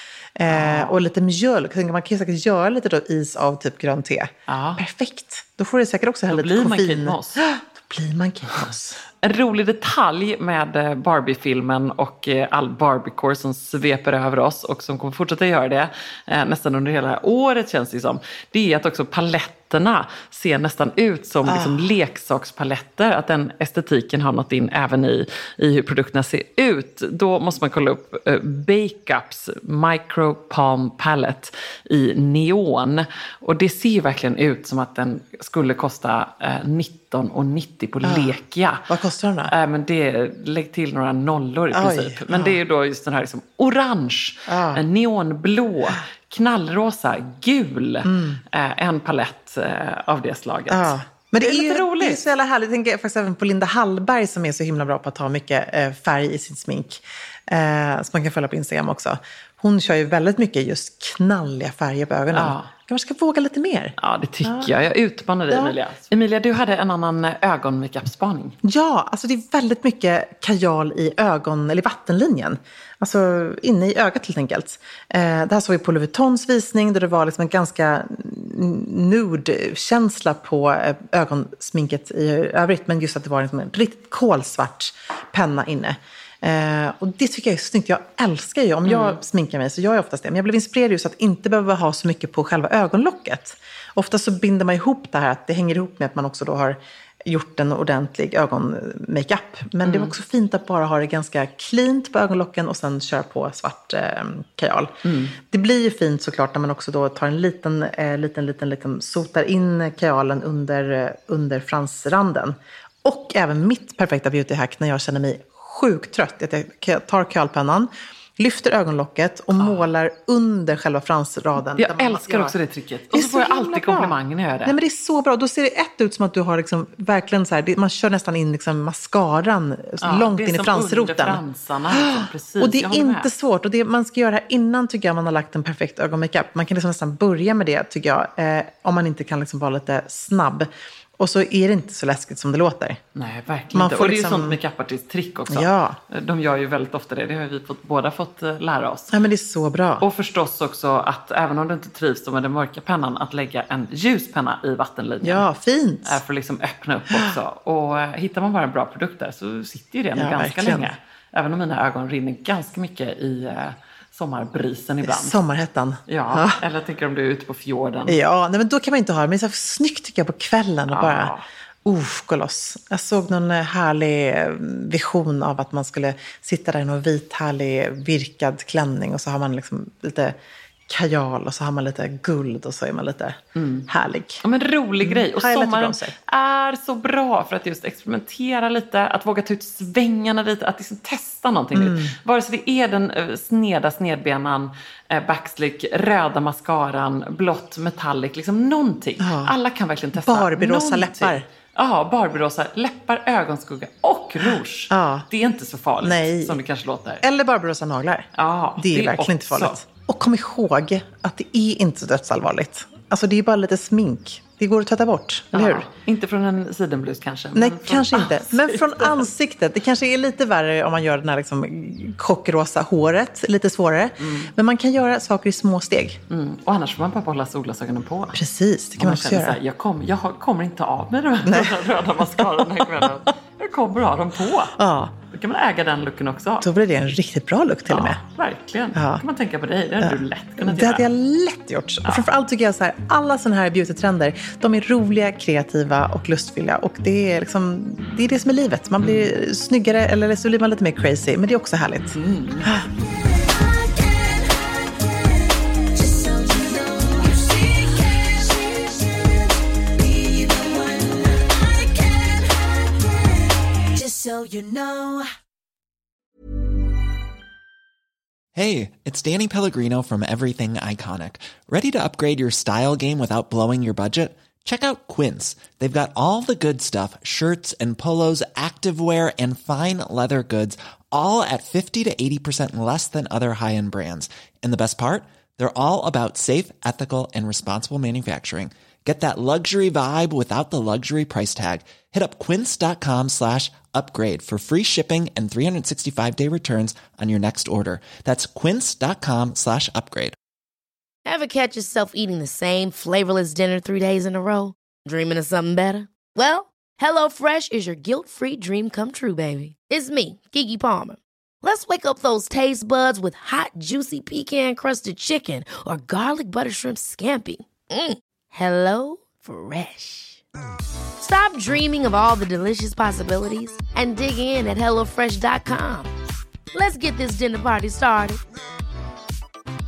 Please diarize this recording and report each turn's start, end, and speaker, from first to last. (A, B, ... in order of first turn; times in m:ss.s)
0:00.4-0:09.0 A
0:00.5-0:01.0 B
0:04.5-0:04.8 B
0:06.3-0:07.4 B
0:09.2-0:38.9 B
0:21.5-0:21.9 A
0:38.0-0:38.4 A
0:38.9-0:39.5 A
0:39.5-0:52.2 B
0:41.7-0:42.6 A
0:44.5-0:44.8 A
0:48.0-0:48.4 A
0:50.7-1:04.7 A
1:02.3-1:02.7 B
1:04.0-1:08.6 B
1:05.5-1:05.8 A
1:08.6-2:02.5 A
1:28.9-1:29.2 B
1:39.8-1:40.1 B
1:45.0-1:45.4 B
1:59.6-1:59.8 B
2:01.8-2:04.8 B
2:03.1-2:23.0 A
2:10.0-2:13.3 B
2:23.2-2:29.2 B
2:23.7-2:24.6 A
2:25.5-2:26.0 A
2:29.1-2:30.1 A
2:30.0-2:35.5 B
2:35.2-2:36.2 A
2:36.0-2:45.4 B
2:40.2-2:40.9 A
2:45.0-2:46.6 A
2:46.1-2:48.2 B
2:48.1-2:51.3 A
2:50.9-2:51.5 B
2:51.8-3:00.4 A
3:00.9-3:04.4 A
3:03.6-3:03.9 B
3:04.4-3:27.2 B
3:05.0-3:06.2 A
3:11.7-3:12.1 A
3:19.2-3:19.6 A
3:20.2-3:21.5 A
3:24.9-3:25.3 A
3:26.0-3:26.6 A
3:27.2-3:35.9 A
3:28.4-3:29.8 B
3:35.5-3:39.3 B
3:37.6-3:46.2 A
3:44.2-3:44.5 B
3:46.3-3:48.4 B
3:48.3-3:49.6 A
3:49.0-3:56.7 B
3:51.4-3:53.2 A
3:54.8-3:55.2 A
3:56.6-3:58.2 A
3:57.9-4:01.1 B
3:58.9-3:59.2 A
4:00.0-4:12.1 A
4:09.0-4:09.3 B
4:12.1-4:12.6 B
4:12.6-4:25.3 C
4:28.6-5:00.4 D
5:01.3-5:20.4 E
5:21.2-5:26.1 E
5:26.7-5:28.4 E